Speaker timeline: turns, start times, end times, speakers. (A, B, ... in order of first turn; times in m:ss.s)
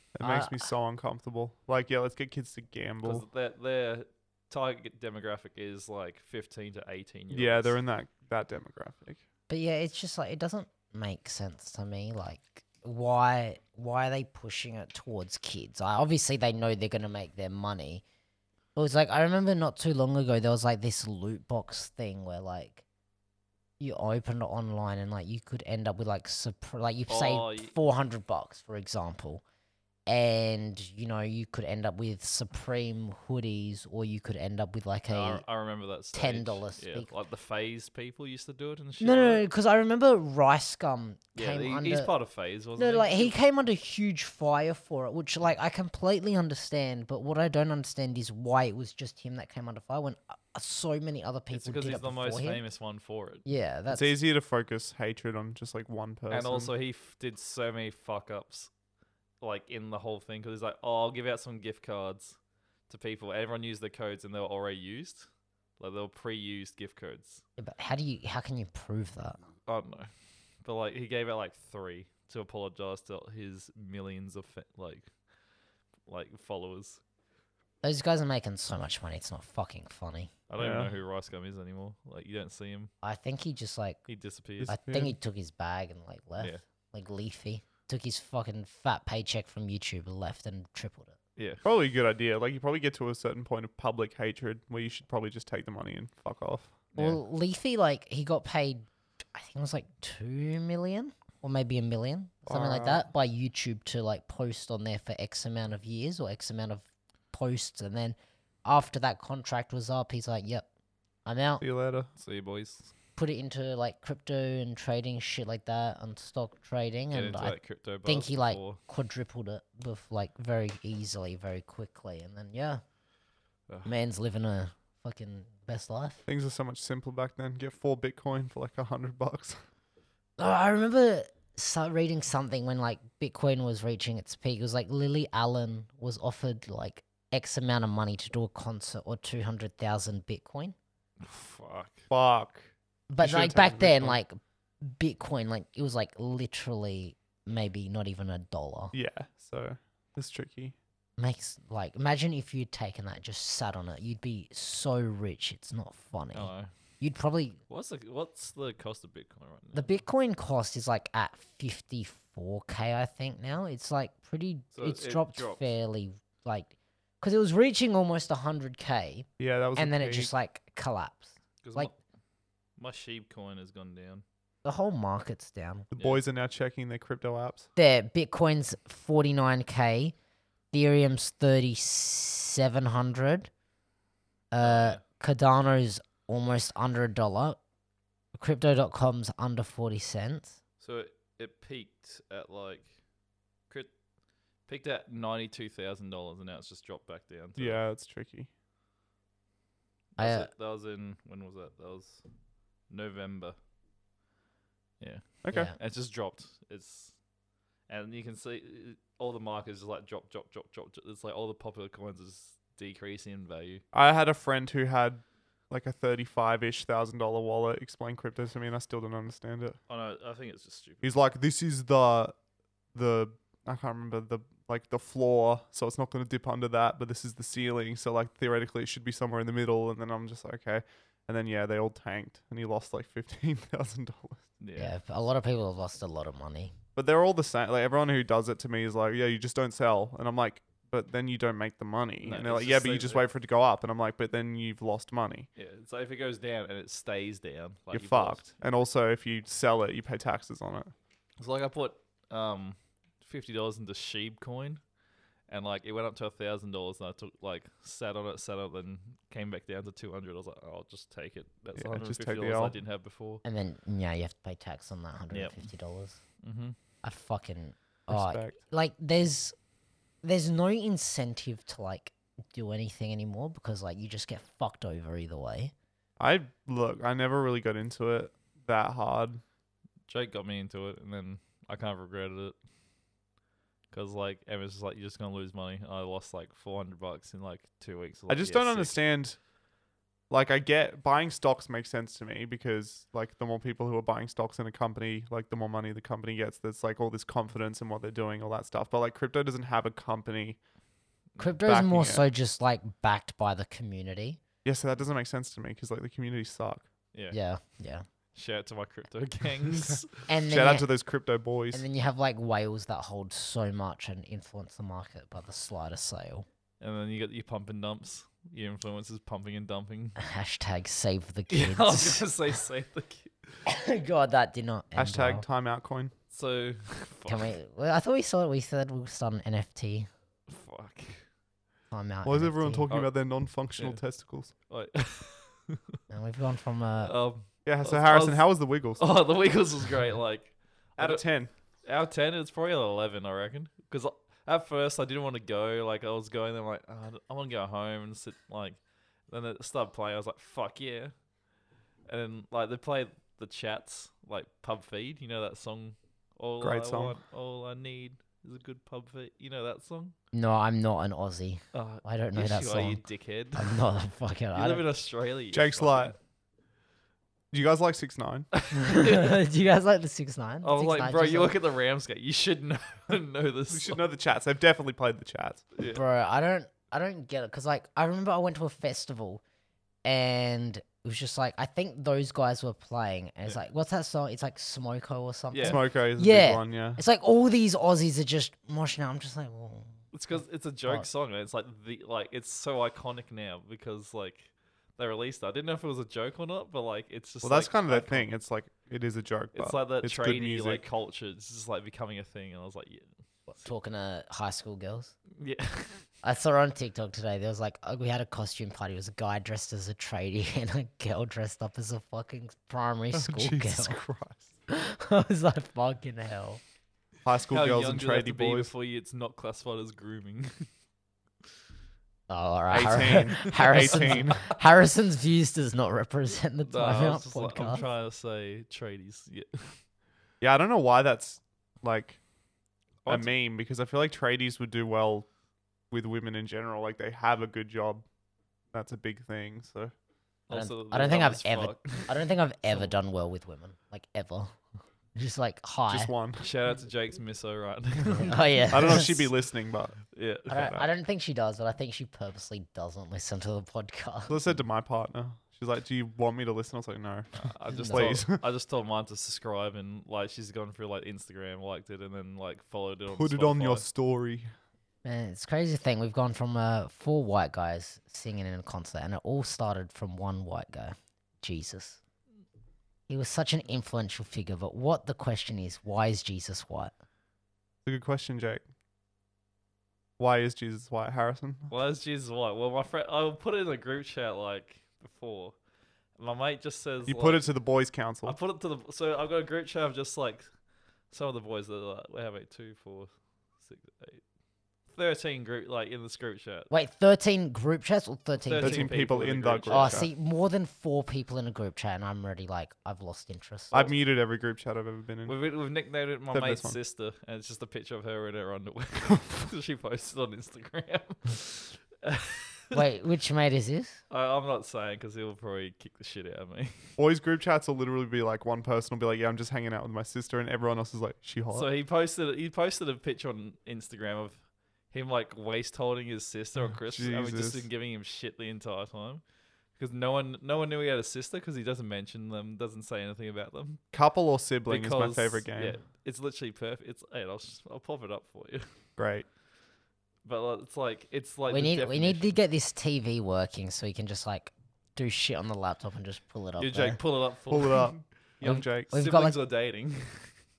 0:00.2-0:03.3 A
0:00.2-0:00.7 B
0:03.0-0:07.8 C
0:07.3-0:09.2 A
0:09.5-0:18.0 B
0:18.8-0:22.8 B
0:23.8-0:29.4 B
0:27.1-0:27.8 C
0:30.1-0:35.4 B
0:35.1-0:39.5 C
0:36.1-0:37.1 B
0:39.0-0:42.1 B
0:41.4-0:43.4 C
0:42.8-0:52.7 B
0:51.5-0:53.4 C
0:53.4-0:54.1 B
0:53.9-0:56.7 A
0:56.3-0:58.7 C
0:59.4-1:02.4 C
1:02.9-1:05.3 C
1:05.8-1:07.4 C
1:07.6-1:09.4 B
1:09.7-1:10.1 C
1:10.6-1:15.1 C
1:16.1-1:17.0 C
1:17.8-1:20.3 B
1:20.5-1:22.9 C
1:20.6-1:20.9 A
1:23.0-1:24.1 B
1:24.1-1:24.8 C
1:24.6-1:25.1 A
1:24.7-1:31.2 B
1:31.4-1:31.7 C
1:31.6-1:36.9 A
1:37.0-1:37.2 C
1:37.0-1:50.7 B
1:42.5-1:43.1 A
1:51.2-1:51.6 B
1:51.6-1:52.1 A
1:52.2-1:52.9 C
1:53.2-2:02.8 B
1:57.1-1:58.8 C
2:03.8-2:06.2 B
2:06.3-2:09.6 A
2:10.4-2:20.8 B
2:21.2-2:22.0 C
2:22.1-2:24.2 A
2:23.1-2:28.9 B
2:28.9-2:30.8 A
2:31.2-2:37.6 B
2:36.3-2:36.7 C
2:37.7-2:39.9 C
2:39.7-2:51.9 B
2:44.7-2:45.7 C
2:49.4-2:50.3 A
2:51.6-2:52.0 C
2:52.8-2:54.2 C
2:54.6-2:55.9 B
2:55.9-2:57.7 A
2:56.0-2:56.2 C
2:57.8-3:00.1 B
3:00.7-3:03.5 B
3:04.5-3:07.6 B
3:04.6-3:05.0 C
3:08.4-3:10.6 B
3:10.8-3:13.0 C
3:14.7-3:17.8 C
3:17.6-3:18.5 A
3:20.2-3:20.5 B
3:20.2-3:22.2 C
3:22.9-3:23.6 C
3:25.0-3:27.2 C
3:25.4-3:25.7 A
3:27.9-3:33.8 C
3:33.9-3:39.8 A
3:39.9-3:41.0 C
3:41.0-3:42.4 A
3:43.0-3:54.5 A
3:54.6-3:55.0 C
3:54.8-3:56.7 B
3:57.0-4:05.5 A
4:02.2-4:03.3 C
4:05.6-4:08.5 C
4:07.9-4:10.9 A
4:11.4-4:14.8 C
4:15.5-4:23.4 C
4:21.8-4:22.8 A
4:23.4-4:26.2 B
4:25.3-4:25.7 C
4:26.4-4:26.8 C
4:27.0-4:29.6 B
4:28.1-4:28.6 A
4:30.2-4:35.7 B
4:36.2-4:39.4 A
4:40.1-4:42.6 C
4:43.9-4:49.0 C
4:48.3-4:49.4 A
4:50.3-5:00.6 A
5:01.4-5:04.4 B
5:01.6-5:02.3 A
5:04.6-5:06.9 A
5:07.3-5:08.0 B
5:08.4-5:10.1 C
5:10.3-5:10.9 B
5:10.5-5:11.8 A
5:11.7-5:16.5 B
5:16.8-5:20.2 C
5:20.2-5:22.3 B
5:21.5-5:23.5 C
5:23.7-5:25.4 B
5:25.0-5:26.1 A
5:26.3-5:27.5 C
5:27.3-5:30.1 B
5:30.5-5:31.3 C
5:31.9-5:32.9 B
5:32.2-5:34.5 A
5:33.8-5:34.0 C
5:34.7-5:36.0 C
5:36.1-5:37.2 B
5:37.0-5:51.1 C
5:37.6-5:39.1 A
5:41.0-5:41.5 A
5:52.1-6:00.2 C
5:56.6-5:57.2 A
6:00.3-6:03.0 B
6:01.7-6:03.8 C
6:03.6-6:04.8 B
6:04.5-6:06.2 C
6:05.5-6:06.2 A
6:07.5-6:08.5 A
6:08.5-6:09.3 C
6:08.7-6:11.6 B
6:10.6-6:14.0 C
6:13.7-6:15.6 A
6:15.8-6:16.0 C
6:15.9-6:19.4 B
6:20.0-6:30.0 B
6:25.5-6:25.8 C
6:25.6-6:27.0 A
6:30.1-6:38.3 C
6:37.4-6:40.8 A
6:39.5-6:43.6 C
6:43.6-6:45.2 B
6:45.4-6:46.1 C
6:46.2-6:54.0 B
6:53.1-6:54.5 A
6:54.7-6:56.6 B
6:57.2-6:58.7 A
6:57.5-7:00.7 C
7:02.3-7:07.8 B
7:02.7-7:04.5 A
7:03.4-7:04.3 C
7:06.6-7:09.8 C
7:10.4-7:12.2 A
7:13.0-7:13.3 C
7:13.1-7:15.3 A
7:15.9-7:18.0 A
7:18.7-7:19.9 A
7:20.5-7:22.2 C
7:20.5-7:24.6 B
7:25.2-7:26.1 B
7:25.9-7:26.5 A
7:26.4-7:29.0 C
7:28.0-7:29.3 B
7:28.7-7:30.0 A
7:30.1-7:30.8 C
7:30.5-7:34.4 B
7:30.6-7:30.9 A
7:34.3-7:38.4 A
7:37.4-7:43.8 C
7:37.7-7:38.2 B
7:43.1-7:44.5 A
7:45.0-7:52.0 B
7:53.1-7:56.9 B
7:57.8-7:58.6 A
8:00.2-8:01.7 A
8:01.7-8:05.6 C
8:06.2-8:07.5 C
8:07.1-8:08.4 A
8:08.2-8:10.5 C
8:11.1-8:14.2 C
8:14.9-8:16.7 C
8:16.7-8:18.9 B
8:18.4-8:20.1 C
8:18.6-8:20.1 A
8:19.7-8:23.9 B
8:23.7-8:25.4 A
8:25.3-8:32.8 C
8:26.3-8:26.8 A
8:32.7-8:34.0 B
8:34.1-8:36.9 C
8:37.0-8:41.7 A
8:41.5-8:49.2 C
8:46.8-8:47.7 A
8:49.8-8:53.8 C
8:53.9-8:55.8 A
8:54.7-8:58.7 C
8:59.0-8:59.3 A
9:00.2-9:02.3 C
9:01.5-9:07.0 B
9:06.6-9:08.0 C
9:07.5-9:08.9 A
9:08.4-9:09.4 B
9:08.9-9:10.3 C